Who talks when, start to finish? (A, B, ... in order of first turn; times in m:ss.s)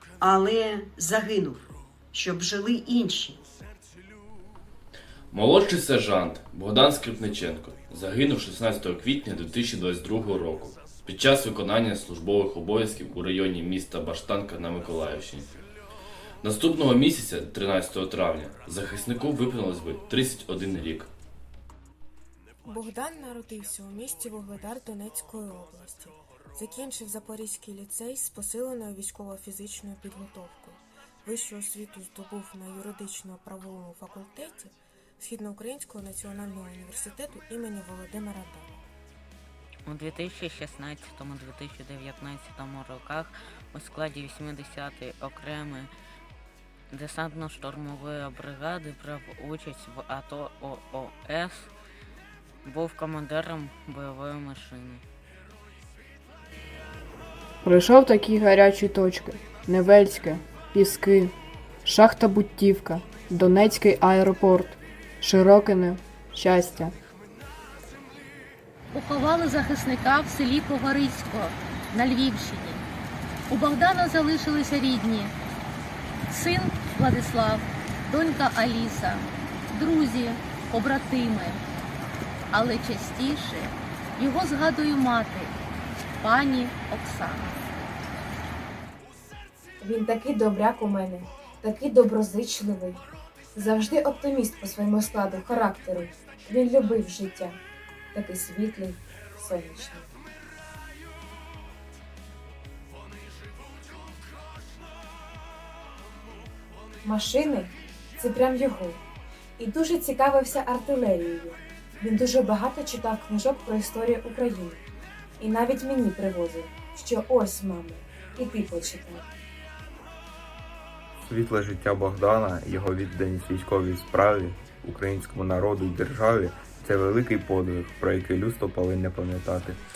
0:00.2-0:03.4 A
0:05.3-0:15.5 B
0:16.4-0:21.1 B
0:22.6-0:38.8 C
0:39.8-0:45.9 D
0:46.9-0:51.7 D
0:52.6-0:55.0 D
0:57.6-1:01.3 E
1:01.8-1:06.9 E
1:08.9-1:12.8 F
1:13.5-1:15.3 F
1:16.3-1:21.6 F
1:22.5-1:25.5 F
1:26.2-1:27.6 F
1:29.8-1:33.0 G
1:33.6-1:37.6 G
1:38.1-1:40.1 G
1:47.0-1:49.0 G
1:49.6-1:54.8 G
1:55.4-1:59.2 G
2:01.2-2:09.8 H